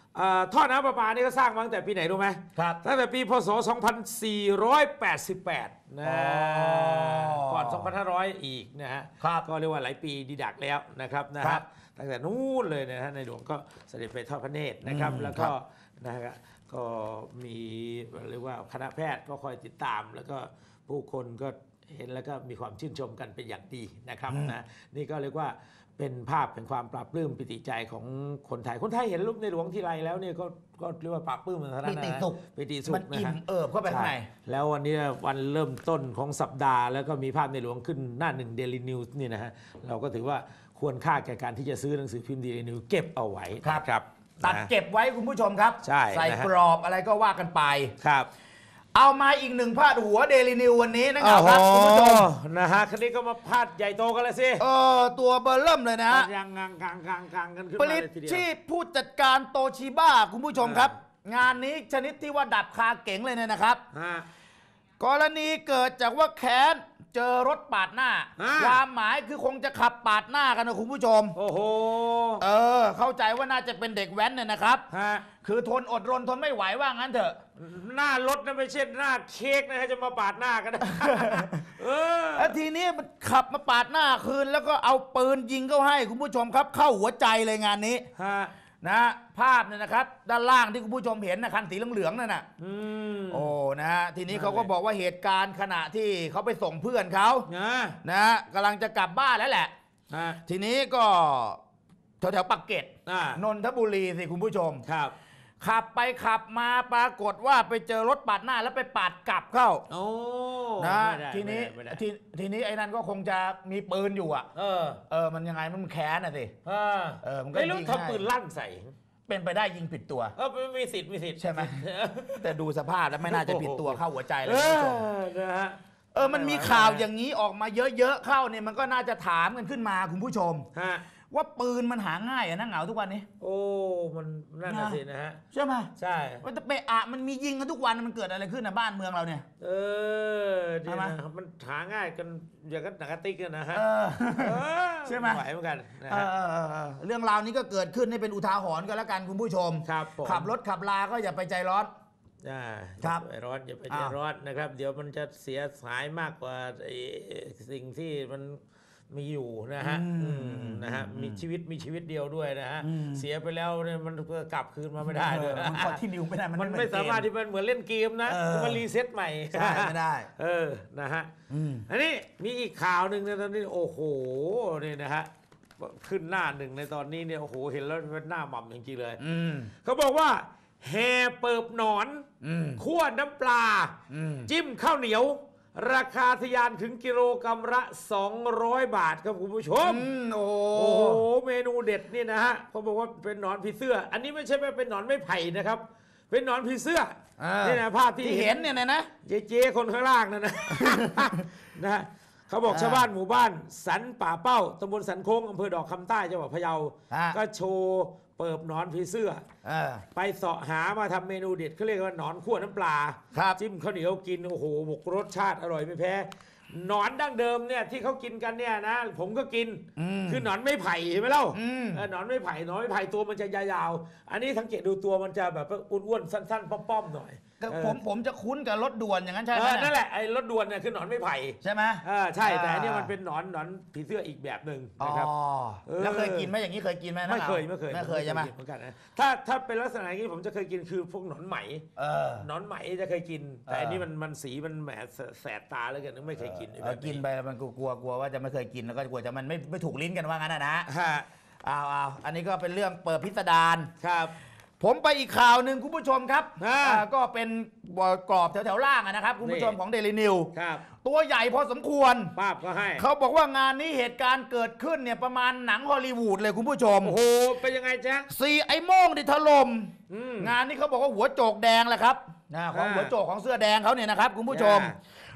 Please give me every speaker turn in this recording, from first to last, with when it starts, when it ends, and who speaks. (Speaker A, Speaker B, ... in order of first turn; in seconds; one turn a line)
Speaker A: 0.1-33.4
Speaker B: 2.5-2.8
Speaker B: 6.0-7.9
Speaker B: 9.2-9.4
Speaker B: 14.8-15.5
Speaker B: 24.3-24.5
Speaker B: 31.8-34.3
Speaker A: 33.9-44.7
Speaker B: 44.4-47.9
Speaker A: 45.8-46.5
Speaker A: 48.0-48.3
Speaker B: 48.9-52.3
Speaker A: 51.2-54.6
Speaker B: 54.6-56.3
Speaker A: 56.1-58.4
Speaker B: 57.8-63.8
Speaker A: 60.6-60.9
Speaker A: 63.9-64.3
Speaker B: 65.0-71.3
Speaker A: 68.4-68.8
Speaker A: 71.3-72.4
Speaker B: 72.4-74.8
Speaker A: 74.9-75.2
Speaker B: 75.4-77.4
Speaker A: 77.6-82.5
Speaker B: 81.0-81.6
Speaker B: 82.3-88.1
Speaker A: 88.2-88.5
Speaker B: 88.8-92.5
Speaker A: 92.6-93.5
Speaker B: 93.3-97.5
Speaker A: 94.3-94.7
Speaker A: 97.5-98.0
Speaker B: 98.0-99.7
Speaker A: 100.1-100.4
Speaker B: 100.5-101.6
Speaker B: 102.2-104.8
Speaker A: 103.0-103.4
Speaker A: 104.8-105.1
Speaker B: 105.6-109.8
Speaker A: 109.9-112.0
Speaker B: 110.8-114.5
Speaker A: 114.5-115.0
Speaker B: 115.1-116.5
Speaker A: 116.6-118.9
Speaker B: 117.2-118.2
Speaker B: 119.3-120.3
Speaker A: 120.3-122.5
Speaker B: 121.4-121.8
Speaker B: 122.4-125.0
Speaker A: 123.2-127.0
Speaker B: 126.1-130.7
Speaker A: 130.7-131.0
Speaker B: 131.3-133.3
Speaker A: 133.4-135.4
Speaker B: 134.7-135.0
Speaker B: 135.5-135.9
Speaker A: 136.0-136.4
Speaker B: 136.4-139.4
Speaker A: 139.6-143.8
Speaker B: 140.9-141.2
Speaker B: 143.7-145.4
Speaker A: 144.4-146.3
Speaker B: 146.1-151.9
Speaker A: 149.8-150.5
Speaker A: 152.4-166.0
Speaker B: 159.8-161.4
Speaker B: 162.8-163.2
Speaker B: 165.0-167.3
Speaker A: 166.5-171.3
Speaker B: 168.3-168.8
Speaker B: 169.5-170.3
Speaker B: 171.5-171.8
Speaker A: 171.9-179.2
Speaker B: 179.2-179.7
Speaker A: 179.8-182.2
Speaker B: 182.4-182.8
Speaker A: 182.8-183.9
Speaker B: 184.1-184.5
Speaker A: 184.5-190.1
Speaker B: 189.8-191.2
Speaker A: 190.7-198.7
Speaker B: 197.4-199.1
Speaker A: 199.2-209.4
Speaker B: 200.8-201.3
Speaker B: 202.7-203.0
Speaker B: 207.1-207.4
Speaker B: 209.6-210.0
Speaker A: 210.1-228.0
Speaker B: 213.3-213.6
Speaker B: 220.0-220.5
Speaker B: 221.5-222.0
Speaker B: 227.6-229.9
Speaker A: 229.5-235.3
Speaker B: 231.6-233.1
Speaker B: 235.0-238.5
Speaker A: 235.8-236.5
Speaker A: 237.2-241.8
Speaker B: 242.0-242.4
Speaker A: 242.4-247.2
Speaker B: 243.7-244.0
Speaker B: 246.4-250.9
Speaker A: 250.9-251.3
Speaker B: 251.6-253.9
Speaker A: 254.0-254.3
Speaker B: 254.8-260.5
Speaker A: 256.6-257.0
Speaker A: 259.4-259.8
Speaker A: 260.5-260.9
Speaker B: 261.0-262.3
Speaker A: 262.3-263.0
Speaker B: 263.0-267.1
Speaker A: 267.0-268.3
Speaker B: 268.3-274.9
Speaker A: 270.1-270.5
Speaker A: 272.7-273.1
Speaker A: 274.5-274.9